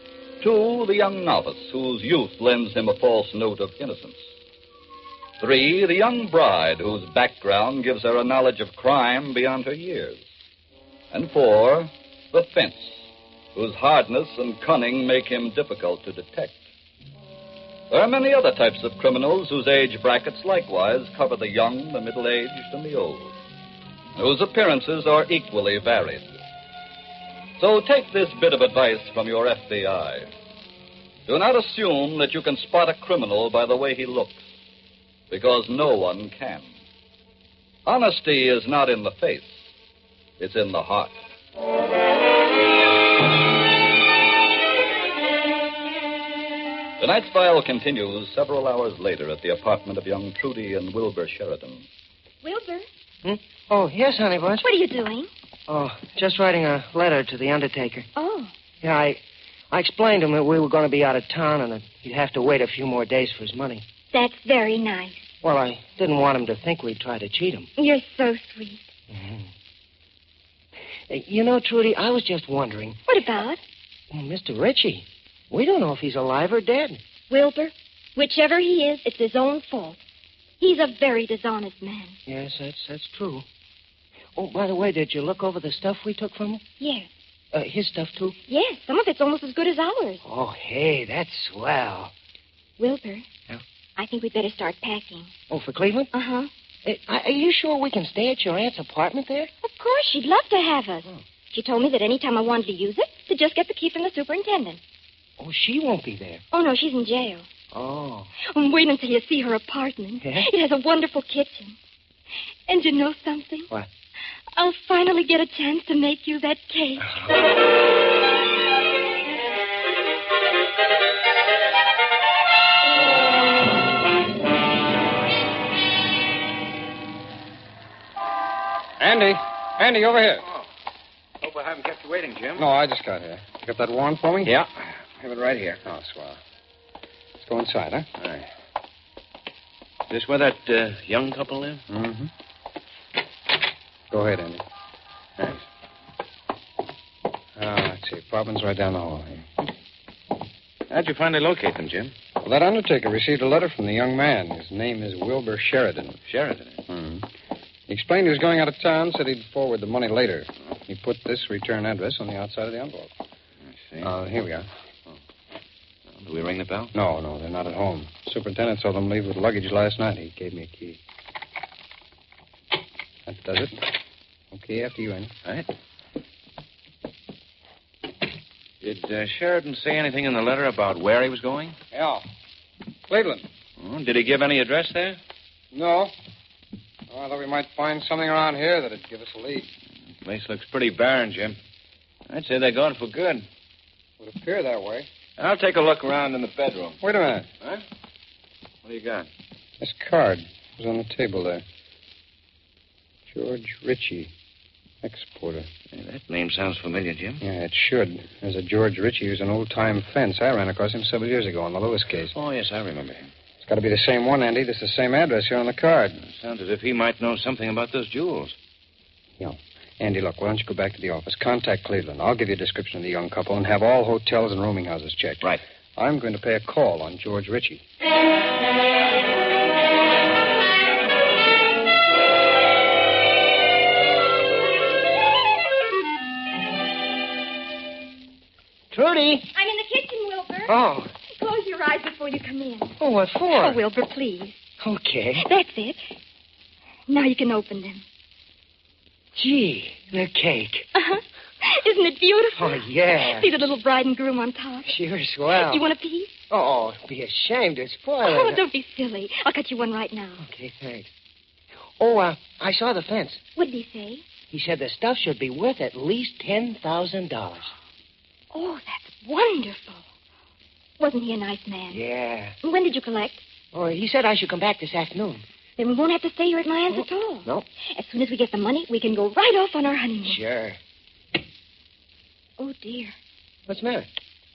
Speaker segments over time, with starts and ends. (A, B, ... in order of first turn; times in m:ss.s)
0:00.4-0:04.2 A
0:05.4-0:10.2 A
0:11.1-0:16.6 A
0:17.9-0:23.3 A
0:24.2-0:26.3 A
0:27.6-0:30.3 A
0:31.3-0:34.4 A
0:35.3-0:36.7 A
0:37.8-0:39.5 A
0:40.4-0:41.1 A
0:47.0-0:51.8 A
0:52.4-0:52.9 B
0:53.2-0:54.6 C
0:54.6-0:55.3 B
0:55.7-0:58.1 C
0:58.1-0:58.5 B
0:58.8-1:03.8 C
1:04.1-1:05.3 B
1:05.4-1:07.7 C
1:07.8-1:08.9 B
1:09.1-1:09.5 C
1:11.1-1:13.0 C
1:13.1-1:13.6 B
1:14.1-1:17.0 C
1:17.3-1:20.0 B
1:20.6-1:22.2 B
1:22.3-1:23.4 C
1:24.3-1:26.6 C
1:26.8-1:27.1 B
1:27.5-1:28.3 C
1:28.4-1:30.2 B
1:30.2-1:32.1 C
1:32.8-1:33.3 B
1:34.0-1:35.3 B
1:35.5-1:36.1 C
1:36.1-1:36.5 B
1:36.8-1:39.5 C
1:39.6-1:44.8 B
1:45.4-1:46.4 C
1:46.5-1:47.5 B
1:47.7-1:48.3 C
1:48.4-1:51.8 B
1:50.2-1:50.5 C
1:52.7-1:53.7 B
1:54.6-1:57.1 B
1:57.0-1:57.3 C
2:09.0-2:10.4 D
2:11.4-2:12.6 E
2:12.6-2:14.6 D
2:14.4-2:14.7 E
2:15.2-2:16.4 D
2:15.4-2:15.7 E
2:17.4-2:18.1 D
2:20.1-2:21.8 E
2:21.9-2:22.3 D
2:24.1-2:24.6 D
2:25.4-2:25.6 E
2:27.6-2:29.5 D
2:30.9-2:32.1 E
2:32.4-2:36.2 D
2:36.2-2:36.8 E
2:36.9-2:37.3 D
2:37.9-2:43.1 D
2:43.8-2:44.1 E
2:44.0-2:44.7 D
2:46.1-2:46.9 E
2:46.9-2:51.0 D
2:53.2-2:53.9 D
2:54.5-2:55.3 D
2:58.8-3:01.8 E
3:01.9-3:02.2 D
3:03.1-3:03.4 D
3:03.8-3:05.2 E
3:05.7-3:06.1 D
3:07.1-3:09.7 D
3:10.2-3:11.6 E
3:12.3-3:13.4 E
3:14.2-3:15.1 D
3:15.4-3:17.0 E
3:17.0-3:17.5 D
3:18.8-3:19.3 E
3:19.8-3:21.6 D
3:23.3-3:24.3 D
3:25.0-3:25.7 D
3:25.9-3:27.4 E
3:27.4-3:32.3 D
3:32.3-3:33.3 E
3:33.6-3:36.2 D
3:36.2-3:38.6 E
3:39.4-3:47.8 D
3:58.9-3:59.5 C
3:59.5-4:00.7 B
4:00.7-4:01.1 C
4:01.3-4:03.0 B
4:03.0-4:03.8 C
4:03.5-4:04.6 B
4:04.8-4:05.4 C
4:05.4-4:06.0 B
4:07.1-4:08.0 B
4:09.3-4:10.9 C
4:10.9-4:14.9 B
4:12.6-4:13.5 C
4:14.8-4:15.8 C
4:15.5-4:16.3 B
4:16.5-4:18.6 C
4:18.2-4:20.4 B
4:20.4-4:21.1 C
4:22.0-4:23.4 C
4:23.6-4:24.2 B
4:24.5-4:27.7 C
4:28.5-4:30.0 B
4:31.0-4:32.0 B
4:31.9-4:32.6 C
4:32.6-4:33.4 B
4:33.7-4:35.4 C
4:35.8-4:40.4 B
4:36.9-4:37.7 C
4:40.3-4:40.8 C
4:42.6-4:43.1 B
4:43.7-4:44.1 C